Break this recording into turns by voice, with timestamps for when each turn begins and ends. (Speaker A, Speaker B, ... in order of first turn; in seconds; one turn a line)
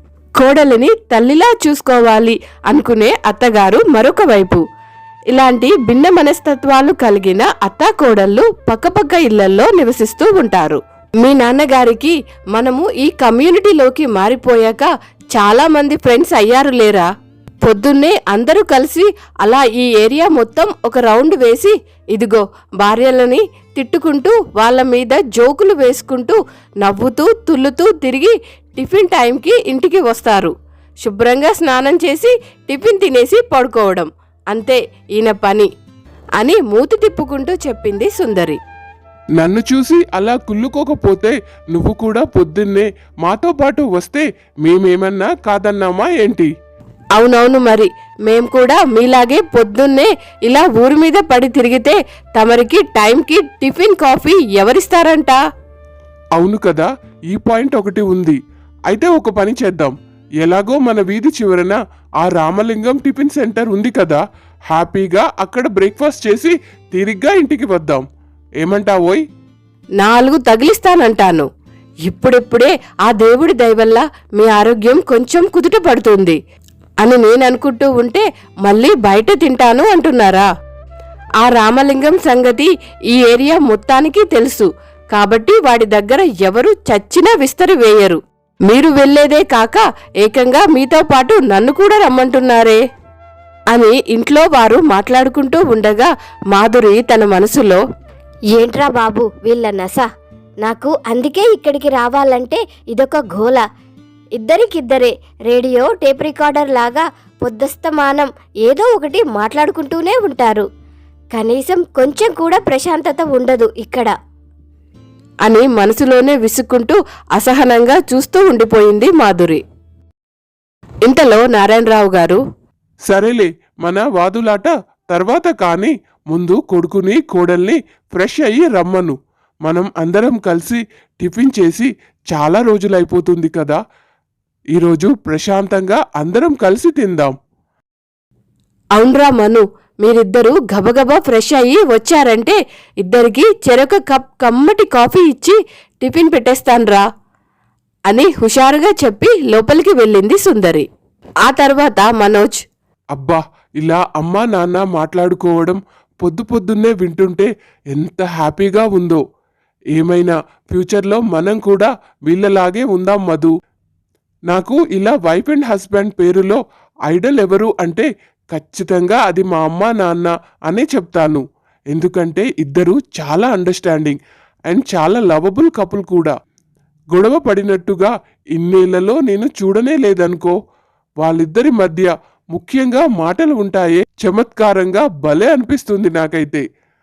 Speaker A: 0.4-4.6
Speaker A: 5.3-17.1
Speaker A: 17.6-35.7
Speaker A: 36.4-38.6
Speaker B: 39.4-46.5
Speaker A: 47.2-55.4
Speaker B: 56.4-58.4
Speaker B: 58.9-68.0
Speaker B: 68.6-69.2
Speaker A: 70.0-71.5
Speaker A: 72.0-76.4
Speaker A: 77.0-80.5
Speaker A: 81.4-92.8
Speaker A: 93.7-97.8
Speaker C: 98.5-100.1
Speaker C: 100.6-103.6
Speaker C: 104.3-110.7
Speaker C: 111.3-114.1
Speaker A: 115.4-119.6
Speaker A: 121.0-122.4
Speaker B: 123.1-133.8
Speaker B: 134.7-137.3
Speaker A: 138.9-147.0
Speaker A: 148.1-150.8
Speaker A: 151.4-152.6
Speaker B: 153.1-159.2
Speaker B: 159.9-163.5
Speaker B: 164.5-174.2
Speaker B: 174.7-176.3
Speaker B: 177.1-180.5
Speaker B: 181.2-186.6